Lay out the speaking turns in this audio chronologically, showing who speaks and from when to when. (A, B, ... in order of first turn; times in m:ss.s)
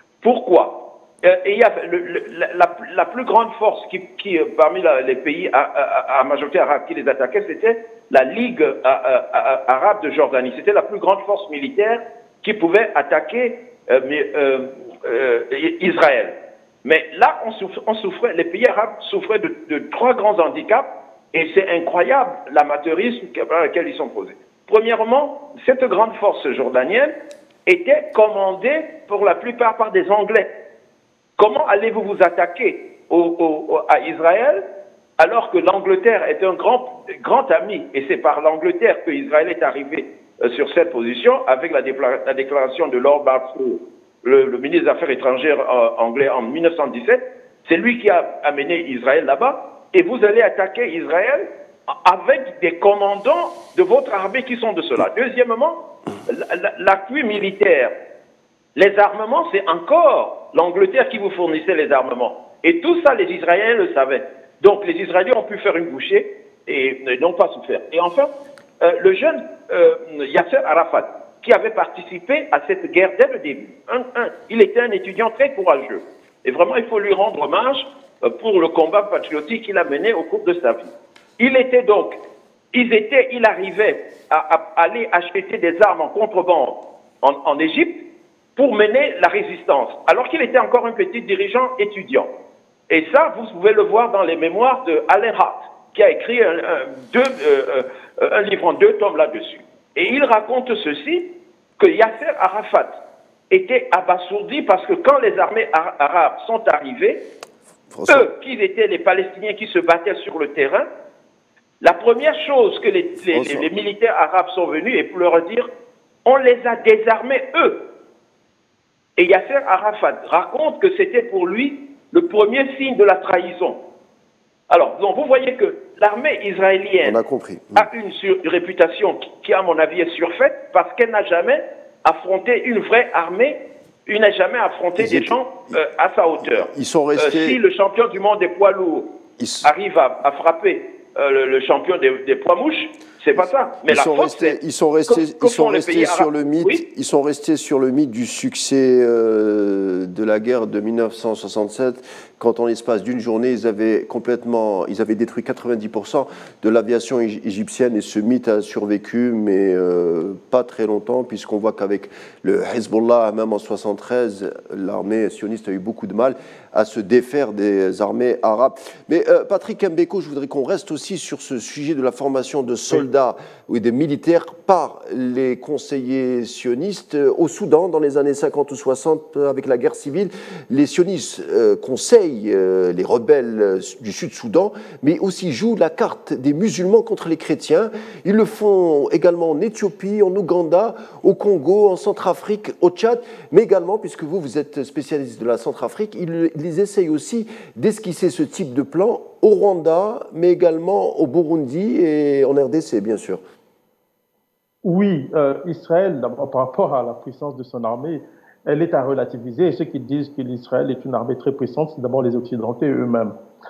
0:00.2-0:27.1 A
0:27.7-0:30.5 A
0:31.4-0:34.6 A
0:35.2-0:57.9 A
0:58.7-1:08.3 A
1:08.8-1:22.2 A
1:22.7-1:27.9 A
1:28.6-1:32.3 A
1:32.9-1:41.2 A
1:41.8-1:42.9 A
1:43.5-1:47.2 A
1:47.9-1:48.3 B
1:48.1-1:50.9 A
1:51.8-1:55.7 A
1:53.3-1:53.7 B
1:56.2-1:57.8 A
1:59.2-2:03.8 A
2:04.7-2:07.2 A
2:07.0-2:07.9 B
2:07.7-2:19.1 A
2:15.0-2:15.8 B
2:16.5-2:17.6 B
2:19.4-2:19.7 B
2:19.6-2:26.8 A
2:23.9-3:23.4 B
3:24.8-3:33.3 C